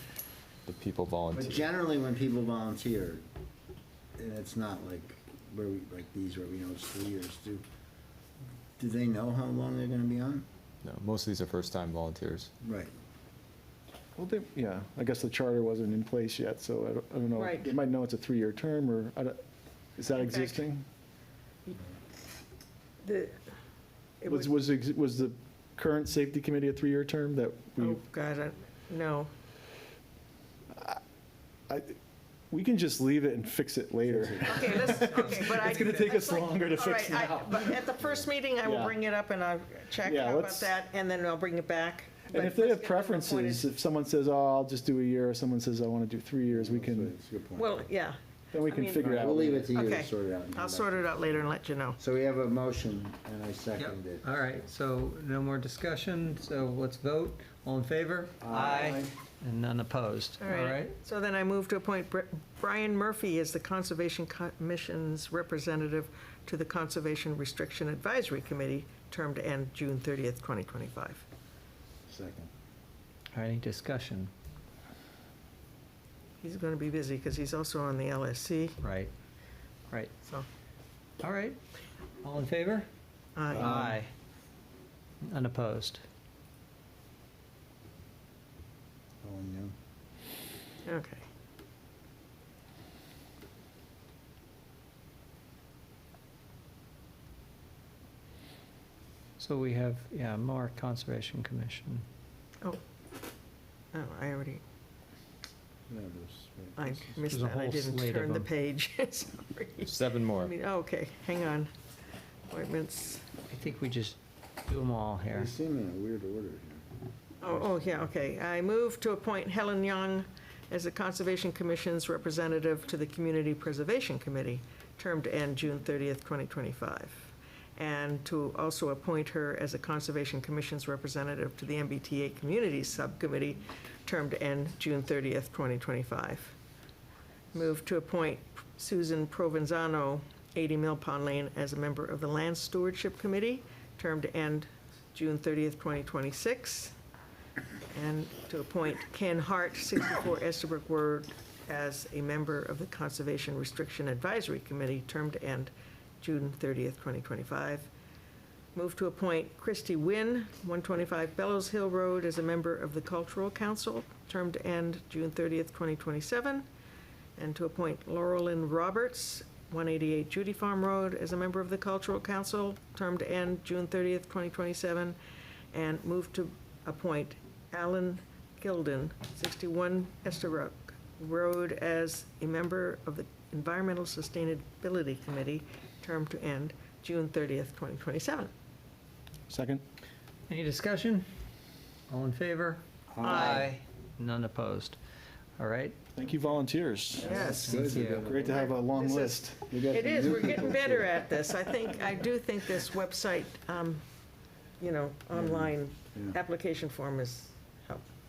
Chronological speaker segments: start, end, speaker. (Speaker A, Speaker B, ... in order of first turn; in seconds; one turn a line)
Speaker A: 0.7-1.6
Speaker B: 1.3-3.2
Speaker B: 4.2-7.6
Speaker B: 8.8-10.4
Speaker A: 10.8-12.5
Speaker B: 12.6-12.9
Speaker C: 14.2-19.4
Speaker D: 17.4-17.7
Speaker C: 20.0-20.8
Speaker D: 20.2-20.6
Speaker D: 23.0-23.4
Speaker D: 24.2-24.5
Speaker C: 24.2-28.0
Speaker D: 27.8-29.3
Speaker C: 30.7-31.0
Speaker C: 31.7-32.0
Speaker C: 32.5-37.8
Speaker B: 34.0-34.9
Speaker D: 34.4-43.7
Speaker B: 38.0-38.3
Speaker C: 38.6-39.0
Speaker C: 40.0-40.7
Speaker C: 42.3-47.1
Speaker B: 46.5-47.9
Speaker D: 47.5-52.0
Speaker C: 48.5-49.7
Speaker B: 49.1-51.4
Speaker B: 52.0-54.2
Speaker E: 53.8-60.9
Speaker B: 58.4-59.1
Speaker D: 60.4-71.2
Speaker B: 72.1-72.5
Speaker E: 73.3-74.3
Speaker D: 76.4-78.8
Speaker E: 78.8-79.1
Speaker E: 81.2-81.6
Speaker E: 82.2-82.9
Speaker D: 83.3-83.8
Speaker E: 83.5-84.1
Speaker B: 83.5-84.0
Speaker E: 85.2-86.0
Speaker B: 89.2-89.7
Speaker D: 90.8-91.2
Speaker E: 99.4-102.0
Speaker D: 103.9-104.6
Speaker B: 105.9-107.1
Speaker D: 106.8-111.7
Speaker E: 107.2-108.5
Speaker A: 109.8-110.5
Speaker D: 112.5-113.3
Speaker E: 113.5-115.5
Speaker B: 115.3-116.8
Speaker D: 117.4-136.6
Speaker B: 117.5-117.9
Speaker D: 137.5-146.9
Speaker D: 147.9-157.9
Speaker D: 158.7-166.6
Speaker D: 167.4-175.2
Speaker D: 175.7-188.5
Speaker C: 189.5-189.8
Speaker E: 190.5-191.3
Speaker E: 192.1-195.0
Speaker B: 193.1-193.7
Speaker D: 193.2-193.7
Speaker E: 195.6-195.9
Speaker C: 196.1-199.7
Speaker B: 197.2-198.6
Speaker D: 197.2-204.0
Speaker E: 197.2-198.3
Speaker B: 199.7-201.1
Speaker D: 204.8-208.1
Speaker B: 205.3-206.4